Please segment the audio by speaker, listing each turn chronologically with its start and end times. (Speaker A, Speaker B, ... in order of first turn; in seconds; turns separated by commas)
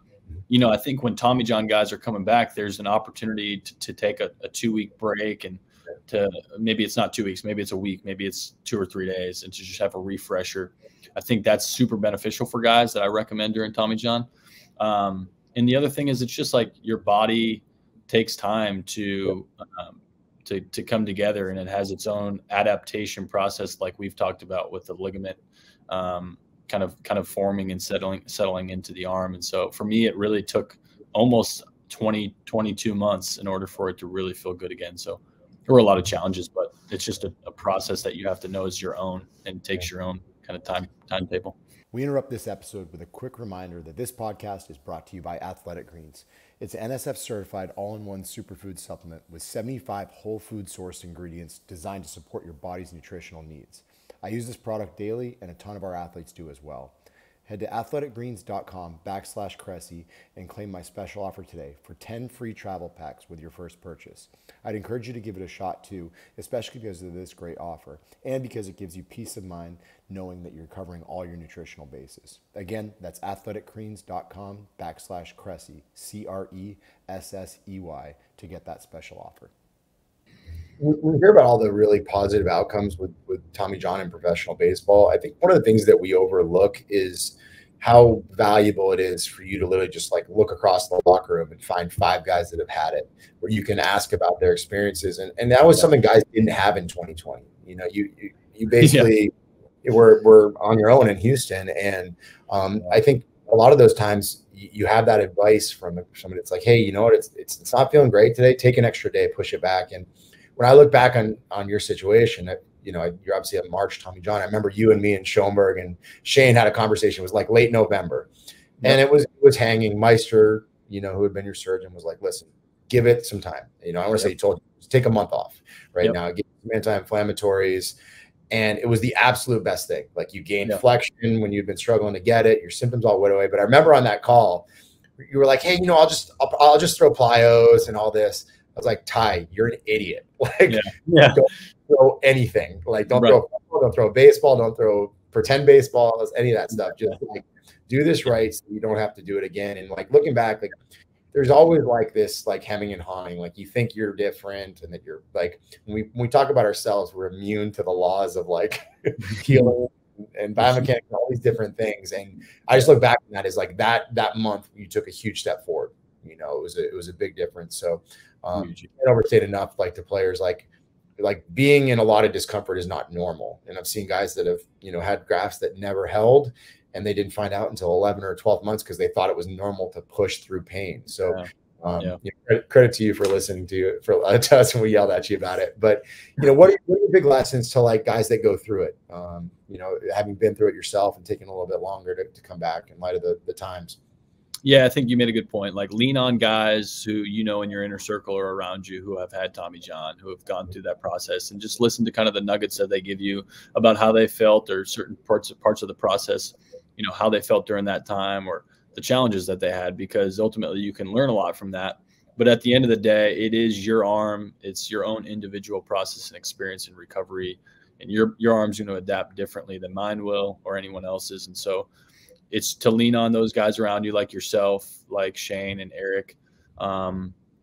Speaker A: 0.5-14.3, Speaker A: 14.8-41.5, Speaker B: 41.9-57.0, Speaker B: 57.5-79.5, Speaker C: 80.8-99.3, Speaker A: 98.8-99.1, Speaker C: 99.8-118.3, Speaker C: 118.8-128.0, Speaker C: 128.5-134.7, Speaker C: 135.2-150.7, Speaker A: 140.7-141.5, Speaker A: 143.1-143.4, Speaker C: 151.3-170.7, Speaker A: 168.6-168.9, Speaker C: 171.2-194.0, Speaker A: 194.6-221.9, Speaker A: 222.5-227.3